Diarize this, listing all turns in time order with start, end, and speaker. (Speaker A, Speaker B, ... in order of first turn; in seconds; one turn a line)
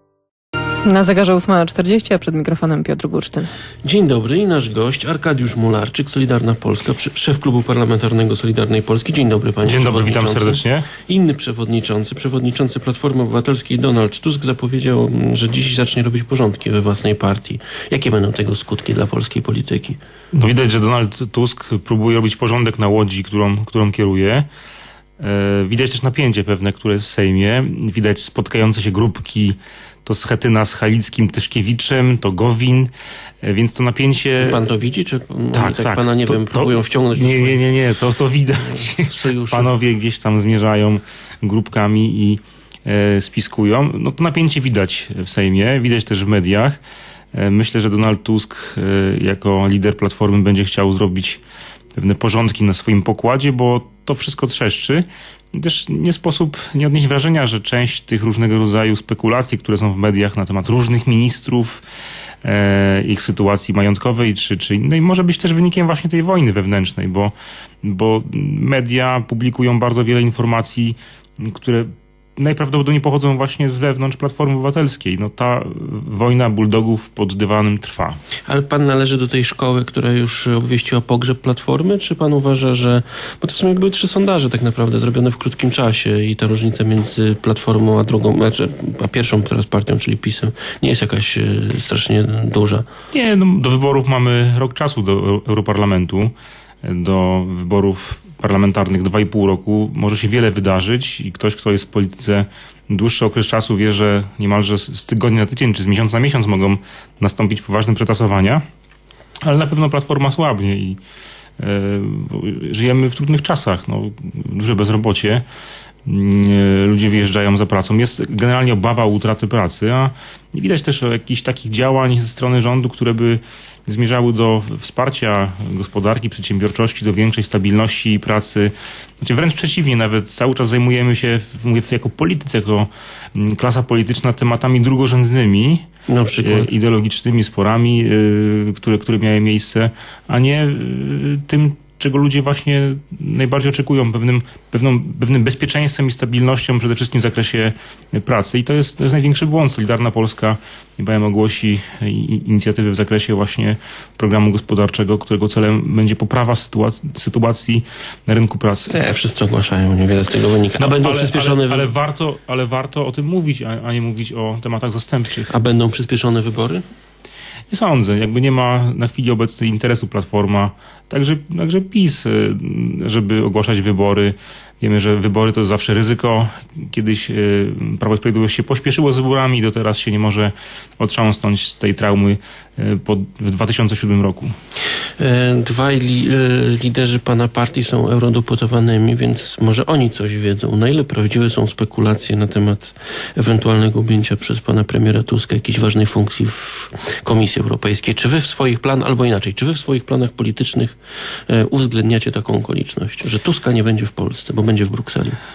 Speaker A: 0.8-3.5
Speaker B: 3.8-20.0
Speaker C: 9.6-10.9
Speaker C: 20.3-24.5
Speaker C: 25.2-32.9
Speaker C: 33.4-34.6
Speaker B: 34.4-37.6
Speaker C: 35.5-46.8
Speaker B: 38.6-39.7
Speaker C: 47.3-51.4
Speaker C: 52.0-61.8
Speaker C: 62.4-78.2
Speaker B: 78.5-92.9
Speaker C: 93.1-108.6
Speaker C: 109.4-111.0
Speaker C: 111.6-115.4
Speaker C: 116.1-135.9
Speaker B: 136.1-136.7
Speaker C: 136.4-159.0
Speaker B: 158.9-161.9
Speaker C: 160.8-165.5
Speaker B: 165.5-166.8
Speaker C: 167.7-184.5
Speaker B: 185.2-205.4